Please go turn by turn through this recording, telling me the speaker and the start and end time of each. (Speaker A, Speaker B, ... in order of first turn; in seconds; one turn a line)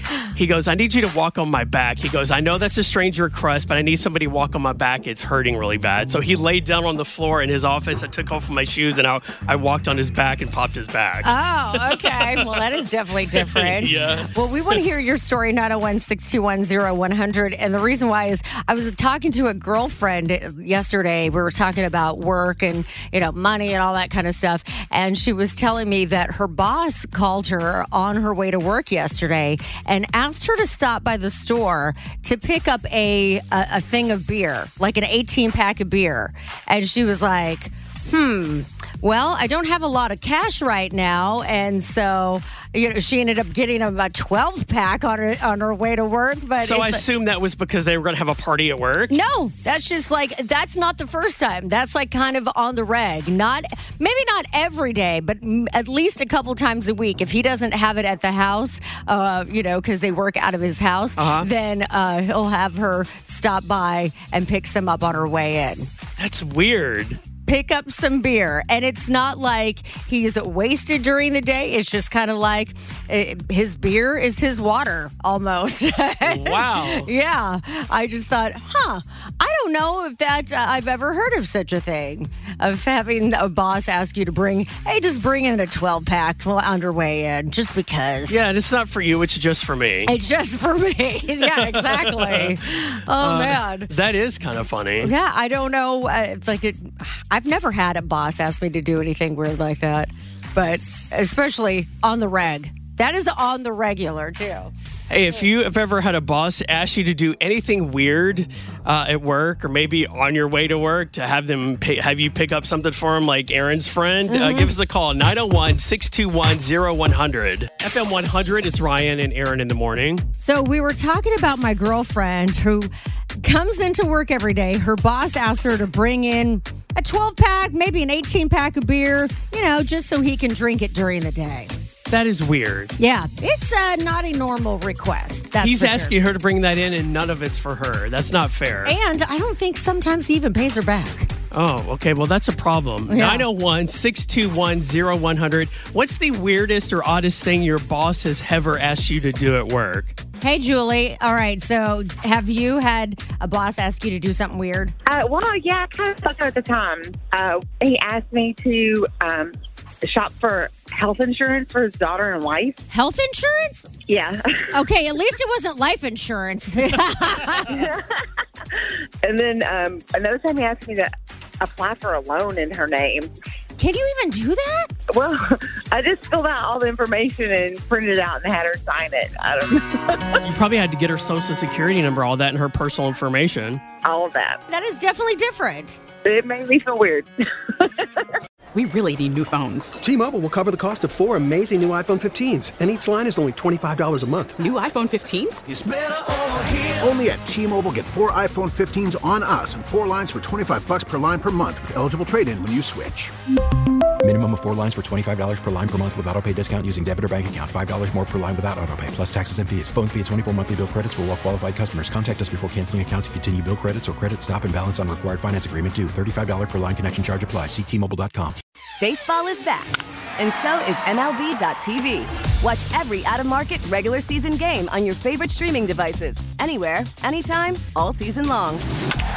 Speaker A: 0.3-14.8
Speaker B: 11.2-47.0
Speaker A: 46.6-49.2
Speaker B: 49.1-65.9
Speaker A: 61.2-61.5
Speaker A: 66.2-67.2
Speaker B: 67.4-88.4
Speaker A: 76.2-77.1
Speaker A: 88.3-90.1
Speaker B: 90.1-93.9
Speaker A: 91.4-92.5
Speaker A: 93.2-95.1
Speaker B: 95.0-104.7
Speaker A: 105.1-120.2
Speaker B: 114.3-114.7
Speaker B: 120.4-122.9
Speaker B: 123.4-131.7
Speaker A: 132.1-132.9
Speaker B: 133.0-136.2
Speaker A: 135.6-138.9
Speaker B: 138.8-141.3
Speaker A: 141.5-150.2
Speaker B: 143.1-143.5
Speaker B: 150.4-154.9
Speaker C: 155.1-159.5
Speaker C: 160.1-162.7
Speaker B: 162.9-163.9
Speaker C: 164.1-164.4
Speaker B: 164.7-167.8
Speaker C: 169.2-171.1
Speaker C: 171.6-173.3
Speaker B: 173.8-174.9
Speaker C: 175.1-175.4
Speaker C: 175.9-180.3
Speaker A: 180.4-183.8
Speaker C: 184.0-184.5
Speaker B: 184.7-186.0
Speaker C: 186.2-187.3
Speaker C: 187.8-188.2
Speaker D: 188.7-189.9
Speaker E: 190.0-194.6
Speaker D: 194.6-195.6
Speaker F: 195.7-203.3
Speaker G: 204.2-218.6
Speaker H: 219.0-228.8